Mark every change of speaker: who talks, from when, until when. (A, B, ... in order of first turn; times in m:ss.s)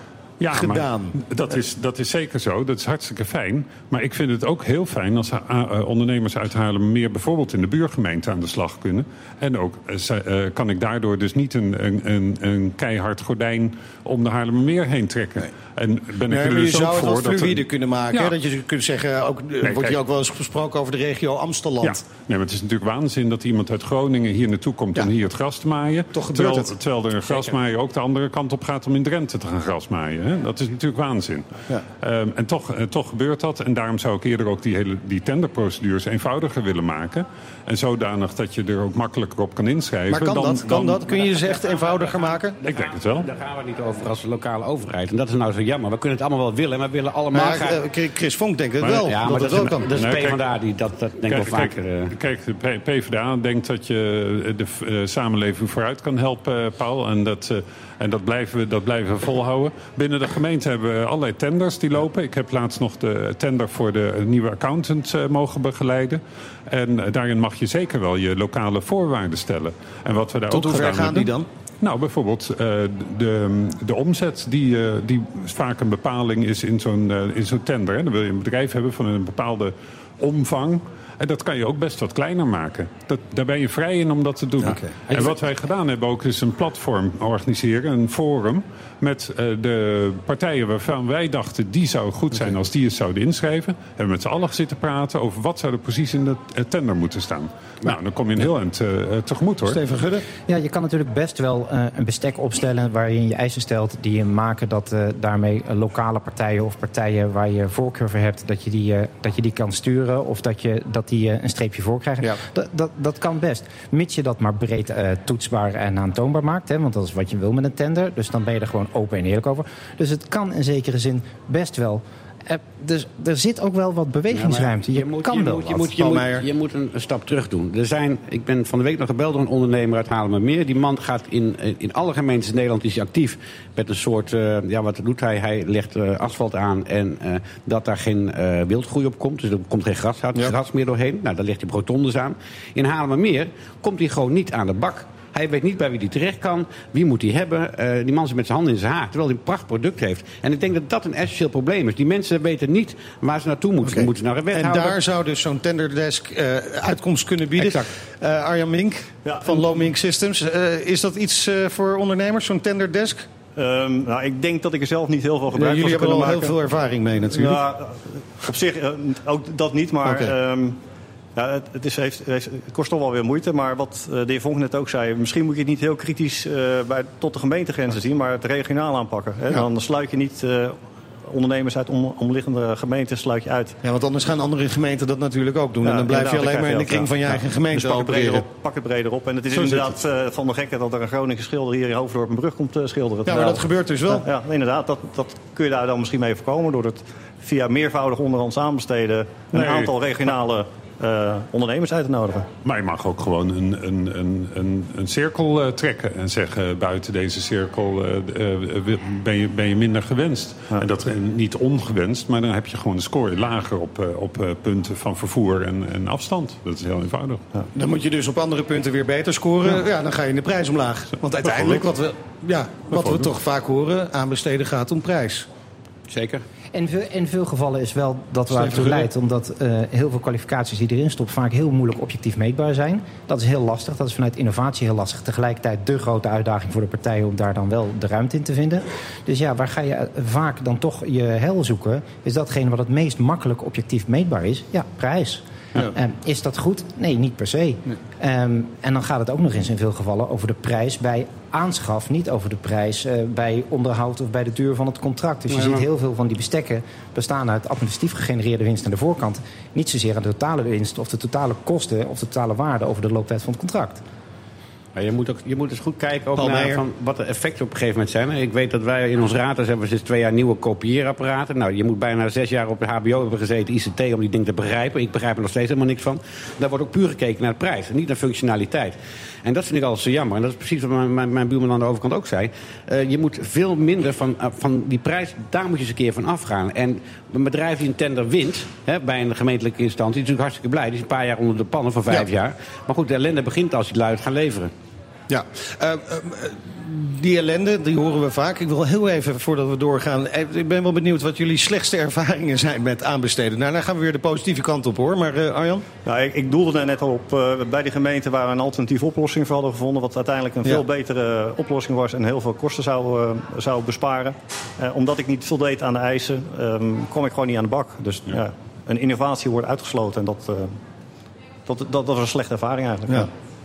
0:00.4-0:18.4 A
0:00.5-0:01.2 B
0:16.3-0:22.0 B
0:19.6-0:20.0 A
0:21.8-0:41.0 A
0:26.1-0:26.7 B
0:40.1-0:42.6 B
0:41.1-0:47.8 C
0:42.7-0:43.3 A
0:47.3-0:49.9 B
0:48.8-0:50.4 A
0:49.1-0:52.1 C
0:51.3-1:39.8 A
1:10.5-1:11.5 B
1:39.7-1:40.2 B
1:40.5-2:05.9 D
2:04.3-2:35.0 C
2:06.0-2:06.4 B
2:33.8-2:43.3 B
2:37.6-2:37.9 C
2:39.2-2:39.7 E
2:43.6-2:46.6 E
2:45.5-2:47.6 B
2:47.2-2:50.8 E
2:50.0-2:50.3 B
2:51.4-3:03.8 E
3:03.8-3:08.4 B
3:05.8-3:22.5 E
3:09.6-3:09.9 A
3:13.3-3:14.2 B
3:19.5-3:19.9 A
3:22.6-3:37.4 A
3:37.7-3:45.5 B
3:41.4-3:41.8 A
3:42.9-3:43.3 A
3:46.1-3:46.4 C
3:46.7-4:24.0 D
3:48.5-3:49.1 B
4:15.5-4:15.8 C
4:25.0-4:54.7 C
4:26.4-4:26.8 B
4:55.3-5:05.9 B
5:06.0-5:20.8 E
5:21.7-5:23.3 E